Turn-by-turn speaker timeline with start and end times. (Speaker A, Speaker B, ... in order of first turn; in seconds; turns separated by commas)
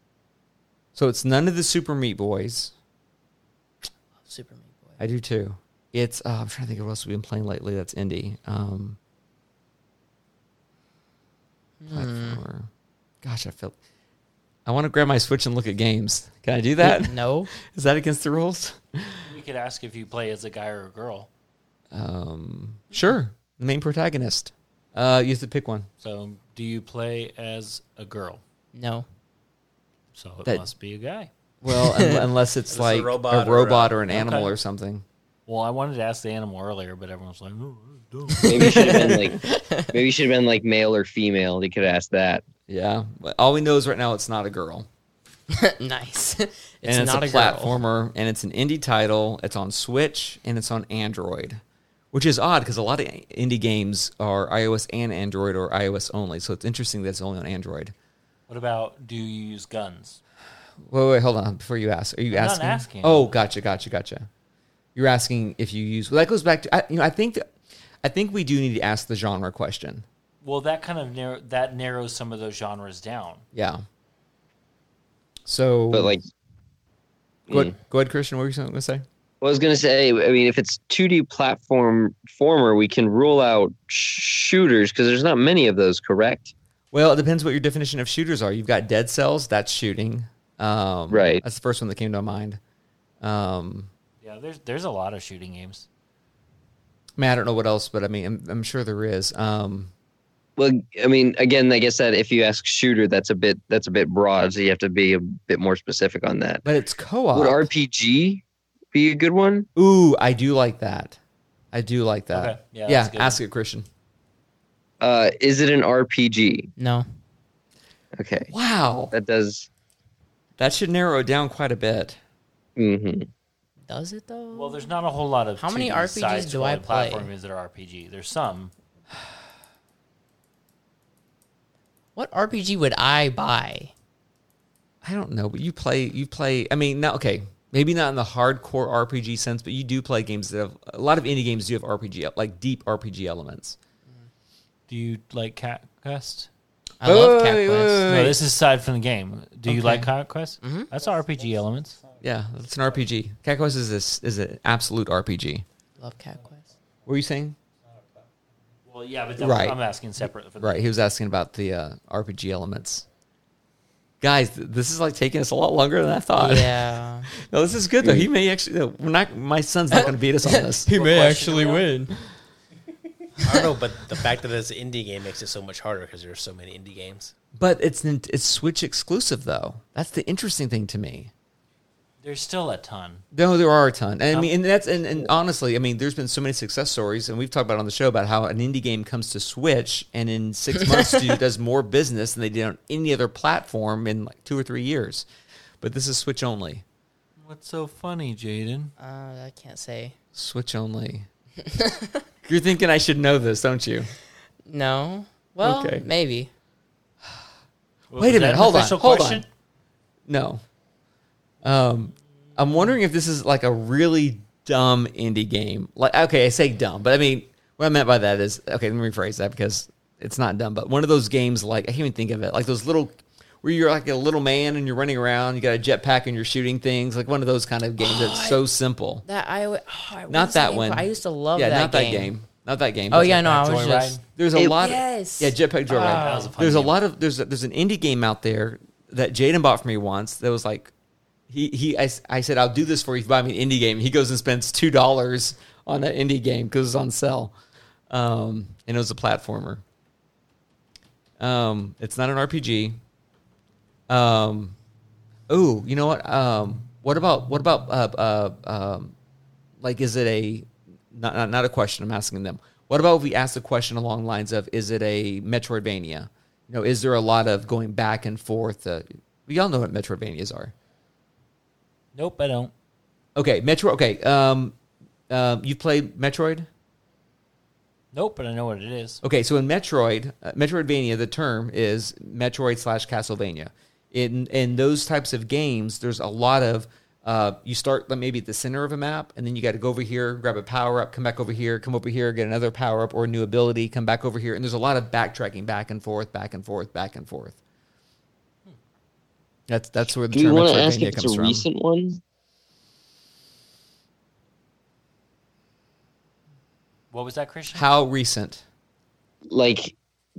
Speaker A: 0.9-2.7, Speaker B: 4.2-5.0, Speaker A: 5.0-9.0, Speaker B: 11.8-12.4, Speaker A: 11.9-12.7, Speaker A: 13.2-13.8, Speaker A: 14.7-19.3, Speaker B: 16.8-17.5, Speaker C: 19.3-21.3, Speaker A: 21.9-25.9, Speaker C: 26.0-28.4, Speaker B: 28.7-29.1, Speaker C: 30.1-31.3, Speaker A: 31.6-35.0, Speaker B: 31.7-32.2, Speaker D: 32.7-34.1, Speaker C: 34.1-34.5, Speaker C: 35.5-39.2, Speaker B: 38.4-39.9, Speaker E: 38.5-42.4, Speaker A: 42.7-44.9, Speaker B: 45.5-47.8, Speaker A: 46.9-51.6, Speaker A: 52.1-57.9, Speaker C: 58.5-60.2, Speaker A: 60.9-64.3, Speaker C: 62.3-63.4, Speaker A: 65.0-67.5, Speaker A: 68.0-70.0, Speaker C: 70.4-73.4, Speaker A: 73.5-73.8, Speaker A: 75.5-76.2, Speaker E: 75.9-76.2, Speaker A: 77.5-79.0, Speaker E: 79.4-86.5, Speaker A: 86.9-92.6, Speaker E: 91.1-91.4, Speaker A: 93.2-93.9, Speaker C: 94.2-95.9, Speaker A: 97.2-99.9, Speaker E: 100.6-106.6, Speaker A: 106.6-107.7, Speaker E: 107.3-109.7, Speaker A: 109.8-111.2, Speaker A: 111.7-113.9, Speaker C: 112.3-113.4, Speaker E: 115.0-116.7, Speaker B: 116.8-117.0, Speaker E: 118.2-118.5, Speaker A: 118.5-119.1, Speaker E: 119.1-119.7, Speaker A: 120.6-122.2, Speaker E: 122.8-123.3, Speaker B: 123.9-124.9, Speaker C: 124.5-128.7, Speaker B: 125.6-127.3, Speaker B: 132.2-133.9, Speaker A: 135.0-143.8, Speaker C: 144.9-146.5, Speaker B: 147.0-148.1, Speaker A: 147.0-148.4, Speaker C: 148.1-152.0, Speaker A: 149.7-150.1, Speaker B: 150.6-150.9, Speaker A: 152.2-155.7, Speaker B: 156.0-156.7, Speaker A: 157.1-157.6, Speaker C: 158.9-160.9, Speaker A: 159.4-159.8, Speaker A: 160.6-163.1, Speaker A: 164.2-166.9, Speaker B: 166.3-167.3, Speaker A: 167.4-171.0, Speaker E: 168.0-168.3, Speaker C: 170.8-172.0, Speaker D: 173.4-177.3, Speaker A: 177.6-181.3, Speaker C: 182.2-183.3, Speaker A: 183.3-195.3, Speaker A: 195.8-196.8, Speaker C: 197.4-198.9, Speaker B: 199.0-200.2, Speaker A: 200.3-201.3, Speaker B: 201.7-202.1, Speaker A: 202.5-204.1, Speaker B: 204.7-206.5, Speaker A: 205.6-206.1, Speaker C: 208.1-209.5, Speaker A: 208.2-209.4, Speaker A: 210.3-210.6, Speaker A: 211.6-229.2, Speaker B: 228.0-228.6, Speaker B: 229.2-232.3, Speaker A: 230.3-233.7, Speaker B: 233.1-236.5, Speaker A: 234.4-240.9, Speaker C: 235.9-237.0, Speaker A: 241.5-247.5, Speaker A: 248.1-249.8, Speaker A: 251.4-253.0, Speaker A: 254.1-254.8, Speaker A: 255.5-259.1, Speaker A: 259.8-270.7, Speaker C: 272.1-272.7, Speaker A: 273.4-274.8, Speaker A: 275.3-276.7, Speaker C: 278.1-279.2, Speaker A: 279.2-297.6, Speaker A: 299.7-301.7, Speaker E: 300.3-302.2, Speaker C: 307.1-307.9, Speaker A: 307.7-308.6, Speaker E: 309.5-310.0